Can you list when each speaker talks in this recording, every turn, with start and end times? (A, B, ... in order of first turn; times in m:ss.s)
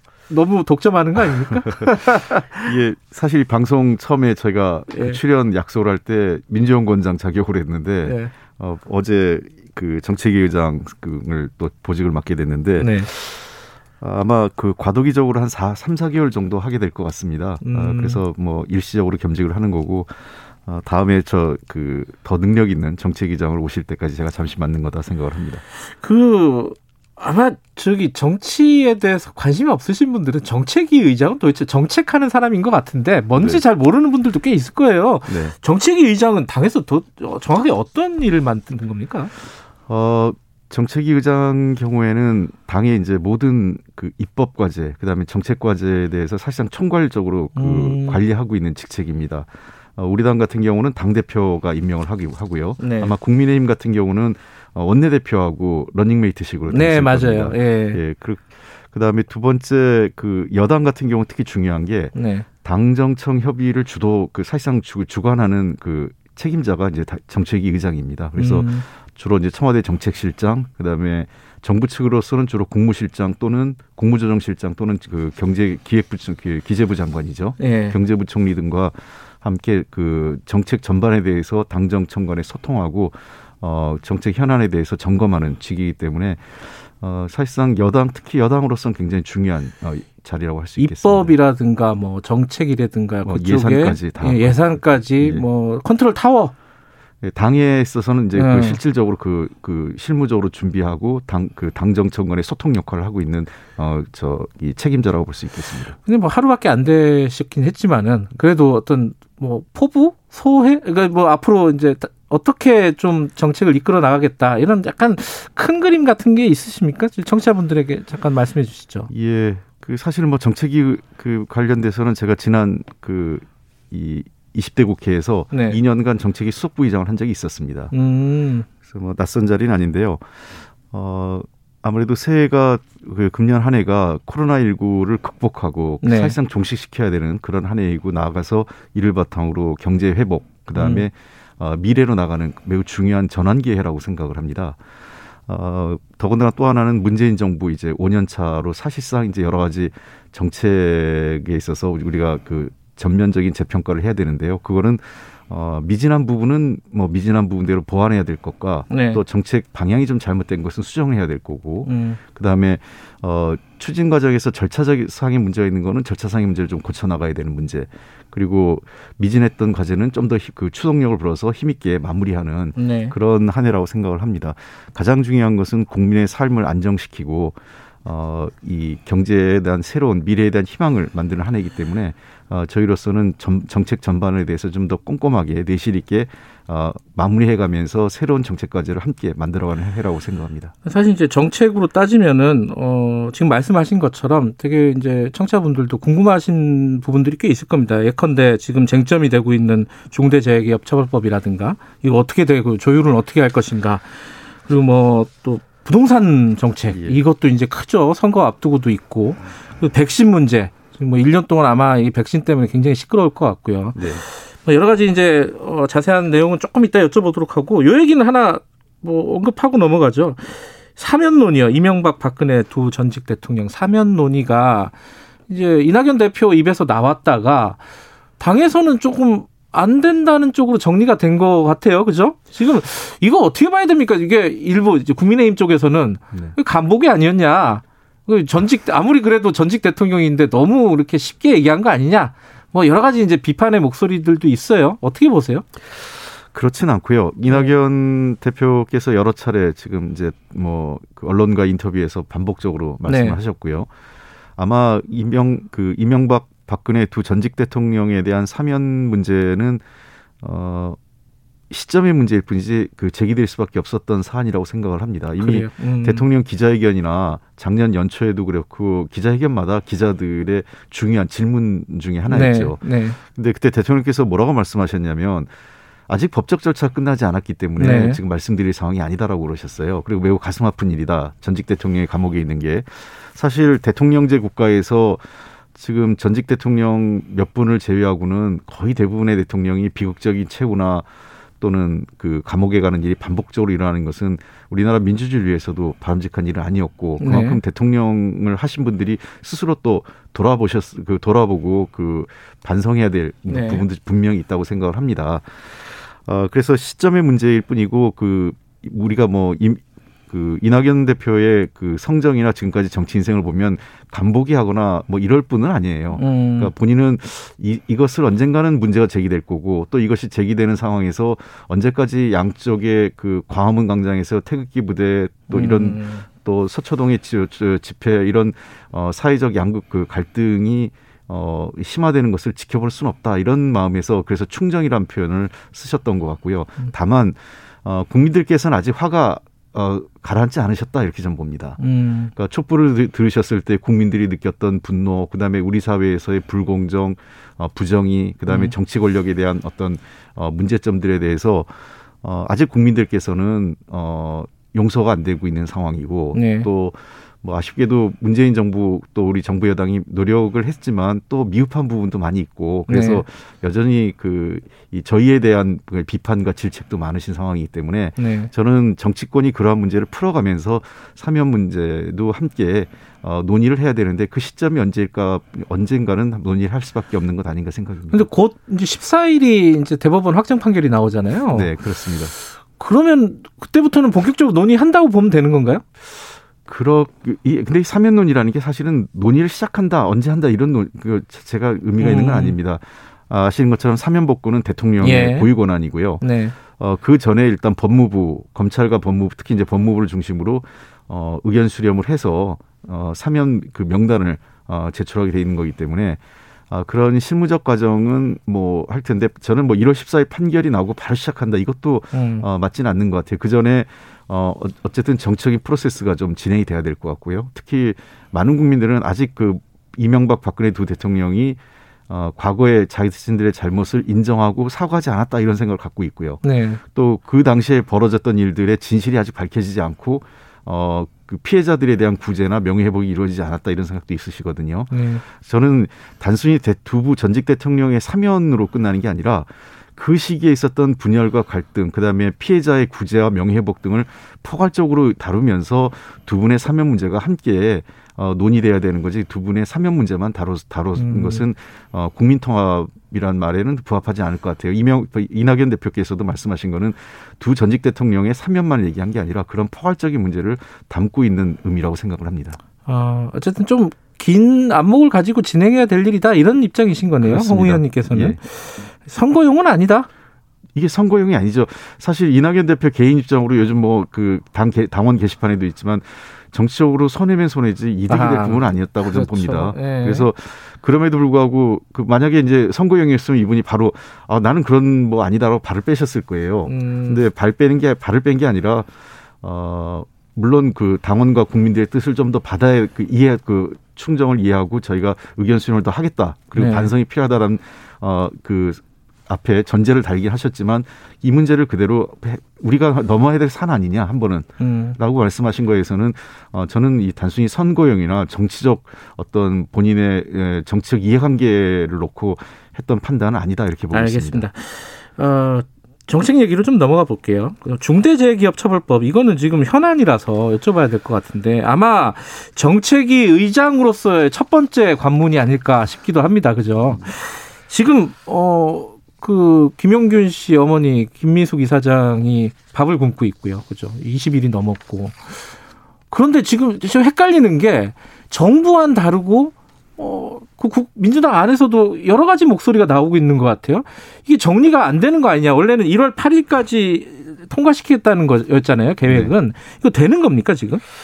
0:00.3-0:02.6 A
0:02.6-0:25.6 B
0:04.9-0:05.2 A
0:08.0-0:08.3 A
0:12.8-0:13.1 A
0:17.6-0:18.2 A
0:25.9-0:39.3 A
0:33.4-0:33.6 B
0:35.3-0:35.5 B
0:39.9-1:31.3 B
0:47.6-0:48.2 A
0:52.8-0:53.1 A
0:56.7-0:58.0 A
1:02.1-1:02.4 A
1:08.4-1:08.8 A
1:17.6-1:18.0 A
1:30.8-1:36.5 A
1:33.2-1:35.4 B
1:37.2-1:45.9 B
1:38.3-1:38.8 A
1:46.0-1:59.1 A
1:59.1-2:07.9 B
2:05.5-2:05.8 A
2:07.9-2:08.7 A
2:08.8-2:24.8 B
2:16.0-2:16.4 A
2:20.8-2:21.1 A
2:25.5-3:10.7 B
2:38.9-2:39.2 A
2:41.8-2:42.2 A
2:52.8-2:53.1 A
3:10.8-3:44.9 A
3:26.9-3:27.2 B
3:33.9-3:34.2 B
3:45.5-3:47.8 A
3:48.4-4:05.7 A
4:06.5-4:13.9 B
4:07.5-4:07.8 A
4:13.1-4:13.4 A
4:14.6-4:19.8 B
4:20.4-4:21.0 B
4:21.7-4:35.5 B
4:25.4-4:26.2 A
4:32.3-4:33.2 A
4:36.1-4:51.1 B
4:37.8-4:38.2 A
4:51.6-5:41.8 B
4:57.2-4:57.6 A
5:03.5-5:03.8 A
5:16.2-5:16.7 A
5:25.5-5:26.2 A
5:41.8-5:42.3 A
5:42.4-6:18.3 B
5:48.5-5:48.8 A
5:56.3-5:56.7 A
6:02.9-6:03.2 A
6:08.2-6:08.5 A
6:18.1-6:21.8 A
6:21.5-6:22.3 B
6:22.6-6:25.8 A
6:26.1-6:46.2 B
6:32.0-6:32.6 A
6:35.0-6:35.5 A
6:36.2-6:36.6 A
6:46.7-7:42.6 B
6:52.1-6:52.5 A
7:06.4-7:06.8 A
7:14.9-7:15.2 A
7:30.9-7:31.5 A
7:42.8-7:50.1 A
7:47.2-7:48.4 B
7:50.8-8:08.9 B
7:58.1-8:00.3 A
8:06.6-8:07.2 A
8:09.4-8:34.4 B
8:16.6-8:16.9 A
8:24.6-8:25.0 A
8:33.9-8:55.5 A
8:56.1-9:10.8 A
9:09.1-9:09.3 B